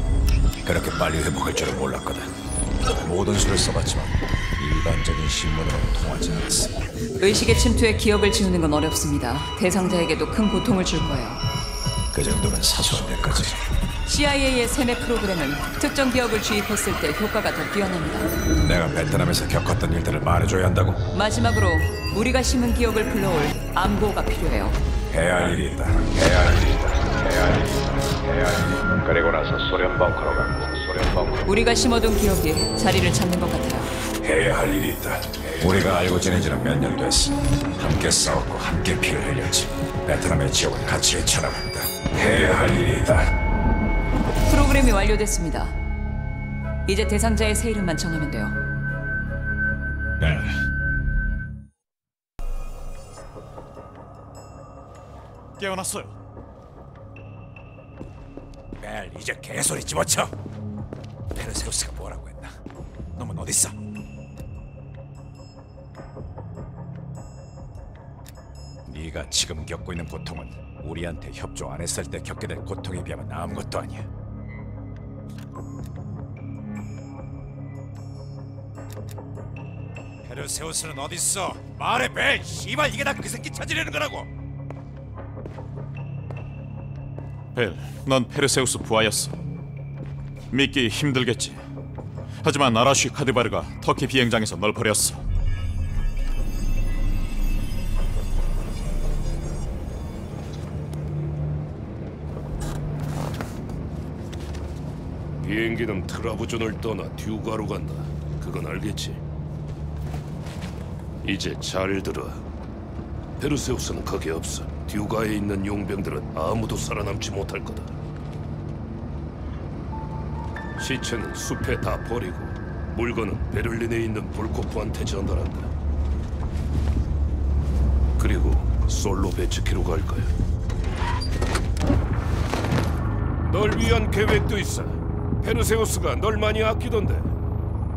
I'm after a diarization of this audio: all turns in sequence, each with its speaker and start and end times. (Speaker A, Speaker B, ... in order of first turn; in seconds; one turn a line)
Speaker A: 0.6-2.3
Speaker A: 2.9-6.8
Speaker B: 7.2-11.4
Speaker A: 12.1-13.6
Speaker B: 14.1-18.3
Speaker A: 18.5-21.1
Speaker B: 21.1-24.8
Speaker A: 25.1-31.5
Speaker B: 31.5-33.9
Speaker A: 34.2-43.3
Speaker B: 44.5-45.8
Speaker B: 46.9-48.6
Speaker A: 50.2-50.6
Speaker C: 55.6-56.1
Speaker A: 58.8-60.3
Speaker A: 61.3-62.6
Speaker A: 63.2-63.8
Speaker A: 68.9-74.1
Speaker A: 80.2-84.3
Speaker C: 87.5-89.3
Speaker C: 90.5-91.6
Speaker C: 92.4-95.2
Speaker D: 105.4-109.2
Speaker D: 111.2-112.5
Speaker D: 113.4-118.0
Speaker D: 120.8-125.7
Speaker D: 128.2-130.3
Speaker D: 133.4-137.3